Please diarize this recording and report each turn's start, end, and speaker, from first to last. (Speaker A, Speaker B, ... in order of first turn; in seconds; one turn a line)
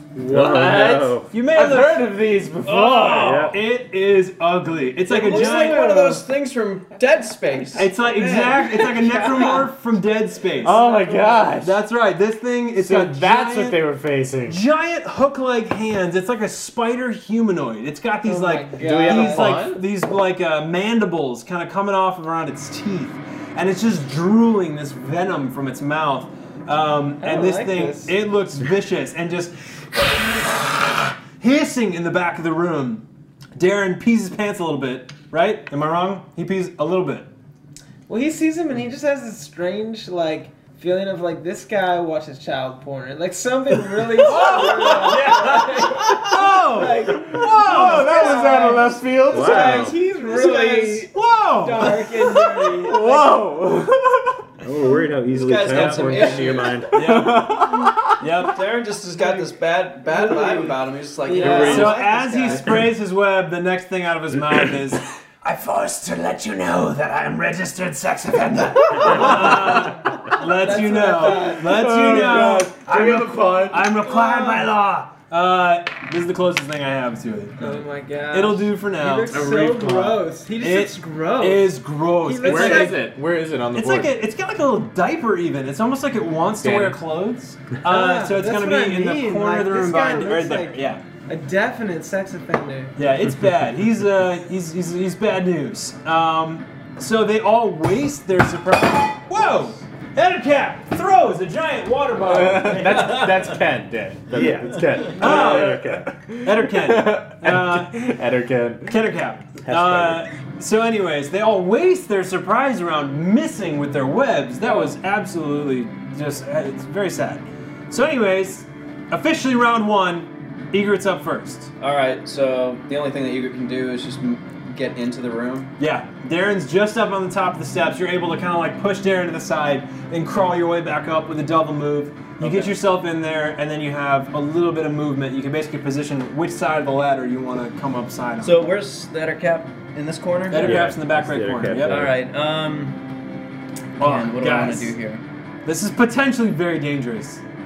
Speaker A: 0.1-3.5
Speaker B: 0.3-1.2
Speaker C: 1.3-2.1
Speaker D: 2.7-3.5
Speaker C: 2.7-6.2
Speaker B: 3.2-3.5
Speaker D: 5.1-7.9
Speaker E: 5.2-6.2
Speaker C: 7.8-10.8
Speaker E: 8.1-9.7
Speaker A: 10.6-11.8
Speaker E: 10.8-11.5
Speaker C: 11.6-13.8
Speaker A: 12.8-14.6
Speaker C: 14.5-37.3
Speaker E: 18.2-19.7
Speaker A: 18.8-19.8
Speaker E: 27.2-28.1
Speaker E: 38.1-53.5
Speaker C: 44.2-48.2
Speaker A: 44.3-51.1
Speaker B: 49.3-50.0
Speaker C: 51.1-52.0
Speaker A: 51.9-54.5
Speaker B: 54.6-56.8
Speaker D: 55.3-56.9
Speaker A: 55.6-58.2
Speaker C: 56.9-57.7
Speaker C: 58.2-58.6
Speaker D: 58.4-62.0
Speaker E: 59.2-59.5
Speaker E: 60.1-62.8
Speaker A: 61.4-62.0
Speaker C: 61.4-79.7
Speaker E: 70.6-72.5
Speaker A: 71.2-74.1
Speaker E: 74.1-74.7
Speaker E: 77.6-83.0
Speaker A: 79.3-80.2
Speaker C: 80.6-83.1
Speaker A: 82.4-84.2
Speaker C: 83.7-91.0
Speaker A: 86.6-87.0
Speaker E: 87.8-93.0
Speaker C: 93.0-103.5
Speaker A: 102.2-109.0
Speaker B: 104.3-105.2
Speaker C: 105.1-108.2
Speaker C: 108.9-121.7
Speaker B: 109.7-110.2
Speaker D: 121.8-125.7
Speaker C: 125.8-138.6
Speaker D: 132.4-132.8
Speaker D: 138.4-140.8
Speaker C: 140.5-142.1
Speaker B: 140.5-142.2
Speaker D: 141.8-143.0
Speaker C: 144.0-144.9
Speaker D: 144.0-145.2
Speaker C: 145.6-147.4